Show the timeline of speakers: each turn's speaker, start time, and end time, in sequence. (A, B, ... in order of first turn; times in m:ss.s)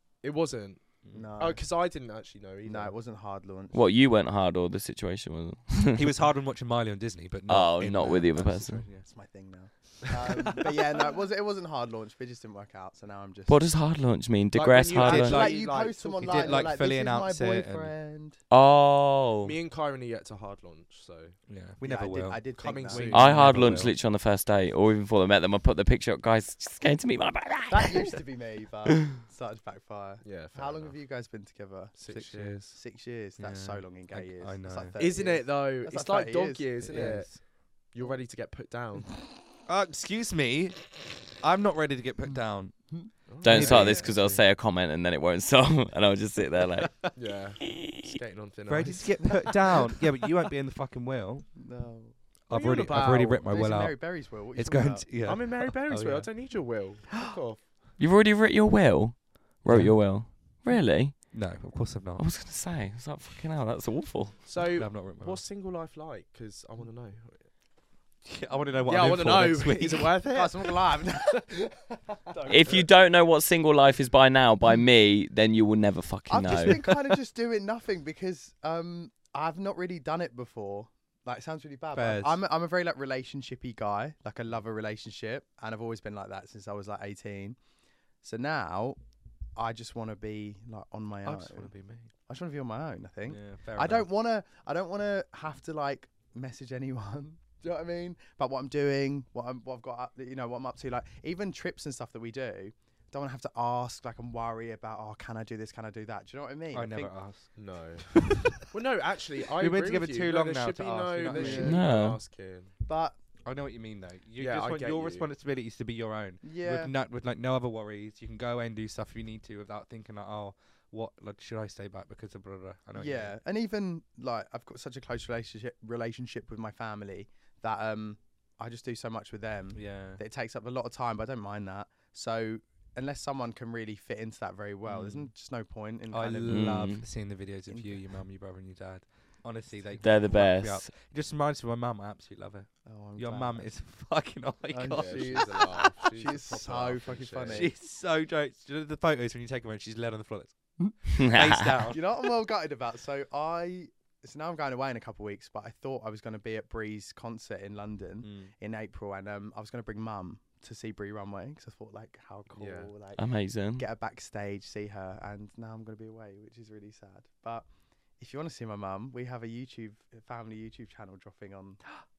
0:00.2-0:00.8 A
0:01.0-0:01.3 B
0:01.1-0:01.6 C
0:01.4-0:03.0 A
0:02.6-0:03.8 C
0:03.7-0:06.0 D
0:06.0-0:09.1 B
0:07.5-0:08.8 D
0:09.0-0:13.6 C
0:10.3-0:10.7 B
0:13.5-0:15.4 D
0:14.5-0:16.7 A
0:15.0-0:15.6 B
0:15.1-0:18.4 C
0:16.2-0:17.9 B
0:18.5-0:19.6 D
0:19.4-0:21.4 A
0:21.5-0:23.9 B
0:21.8-0:23.4 C
0:22.6-0:23.8 A
0:23.1-0:28.2 D
0:27.7-0:37.3 C
0:30.2-0:31.0 A
0:32.0-0:32.7 A
0:32.3-0:32.7 B
0:33.4-0:35.0 B
0:35.0-0:39.1 A
0:36.9-0:37.4 B
0:39.7-0:42.8 B
0:43.3-0:44.4 A
0:43.4-0:44.1 B
0:43.4-0:47.1 D
0:47.2-0:49.9 A
0:47.7-0:48.1 D
0:48.7-0:51.5 B
0:51.6-0:52.1 C
0:52.5-0:54.0 B
0:52.5-0:53.4 A
0:52.9-0:55.1 C
0:54.5-0:56.3 B
0:55.2-0:57.6 A
0:58.0-1:01.3 D
0:59.7-1:00.4 B
1:01.3-1:02.2 B
1:02.2-1:04.4 D
1:04.5-1:07.5 A
1:04.8-1:05.4 B
1:08.2-1:10.2 B
1:08.9-1:10.8 A
1:10.3-1:12.8 C
1:12.5-1:16.9 D
1:16.3-1:27.6 C
1:22.0-1:22.4 B
1:28.2-1:29.0 C
1:29.6-1:31.7 C
1:31.2-1:32.1 B
1:32.3-1:47.2 C
1:33.3-1:34.1 B
1:46.7-1:47.5 B
1:47.6-1:48.1 A
1:48.1-1:48.6 B
1:48.7-1:52.7 A
1:49.6-1:51.7 B
1:51.3-1:51.8 C
1:51.6-1:52.2 D
1:52.9-1:53.2 C
1:53.4-2:03.3 B
1:54.4-1:55.3 A
1:56.4-1:56.9 C
2:03.0-2:17.0 C
2:09.8-2:10.2 B
2:14.9-2:15.3 B
2:16.1-2:25.6 B
2:16.5-2:17.1 D
2:17.7-2:18.0 C
2:20.0-2:20.9 D
2:22.8-2:23.7 C
2:24.7-2:27.7 C
2:24.9-2:27.7 A
2:27.5-2:32.0 B
2:31.1-2:31.7 D
2:31.9-2:47.7 C
2:38.2-2:38.5 B
2:42.6-2:42.9 A
2:43.2-2:43.9 D
2:48.2-2:51.8 C